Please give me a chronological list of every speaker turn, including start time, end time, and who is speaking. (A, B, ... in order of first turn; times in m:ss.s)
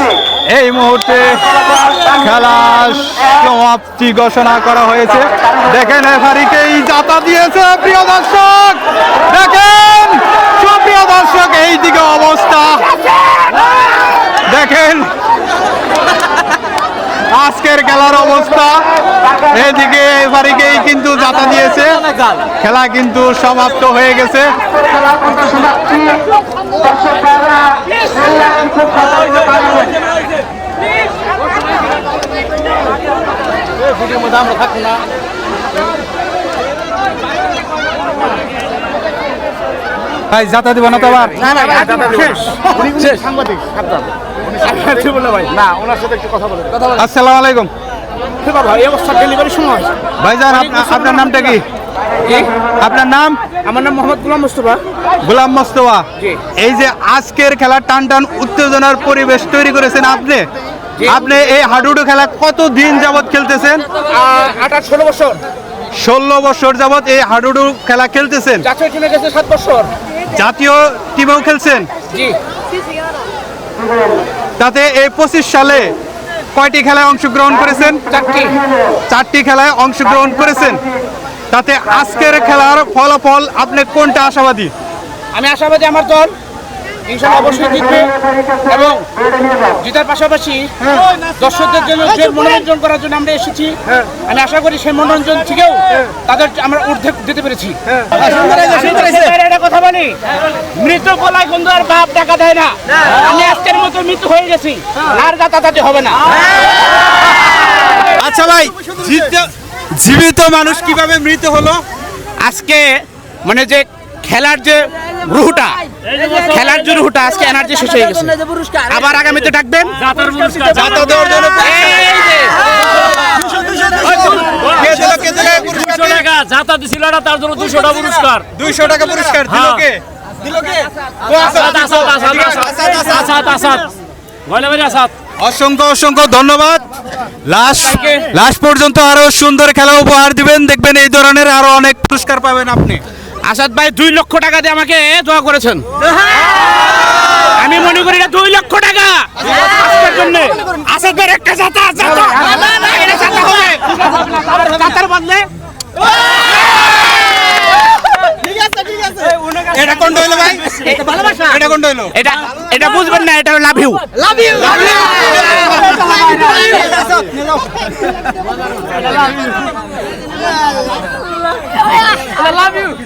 0:00.5-0:13.0 A
0:14.5-0:15.1 A
0:17.3-0:18.8 A
0:19.4-0:22.0 A
0:22.6-0:24.5 A
0:34.6-0:34.8 B
0:40.3-0:41.5 A
0:41.4-0:44.1 B
0:44.6-0:46.8 B
0:46.9-0:47.7 A
0:48.4-0:49.9 B
0:50.2-0:51.6 A
0:50.5-0:51.6 B
0:52.2-0:52.5 B
0:52.8-0:53.4 A
0:53.6-0:54.8 B
0:55.2-0:56.0 A
0:56.6-1:00.5 A
1:01.0-1:03.8 A
1:04.0-1:05.4 B
1:05.9-1:08.6 A
1:08.6-1:09.9 B
1:10.3-1:11.9 A
1:12.1-1:12.4 B
1:14.6-1:15.9 A
1:16.5-1:18.0 A
1:18.1-1:18.6 B
1:19.1-1:20.8 A
1:21.5-1:24.7 A
1:25.3-1:26.3 B
1:27.1-1:28.1 B
1:28.6-1:29.1 B
1:29.6-1:40.2 B
1:38.4-1:39.0 A
1:40.7-1:46.2 B
1:48.1-1:51.8 A
1:52.4-2:00.1 B
2:00.0-2:00.9 C
2:00.7-2:02.0 A
2:01.6-2:02.6 B
2:04.0-2:08.4 C
2:04.6-2:06.2 A
2:08.5-2:10.0 A
2:09.5-2:09.8 C
2:11.3-2:13.4 A
2:11.4-2:13.9 C
2:14.5-2:15.1 C
2:15.4-2:16.8 A
2:17.4-2:23.0 A
2:17.9-2:18.2 B
2:23.4-2:25.9 B
2:27.5-2:35.5 B
2:39.7-2:40.8 A
2:40.7-2:41.4 B
2:41.4-2:42.1 A
2:42.1-2:45.6 B
2:46.2-2:46.6 B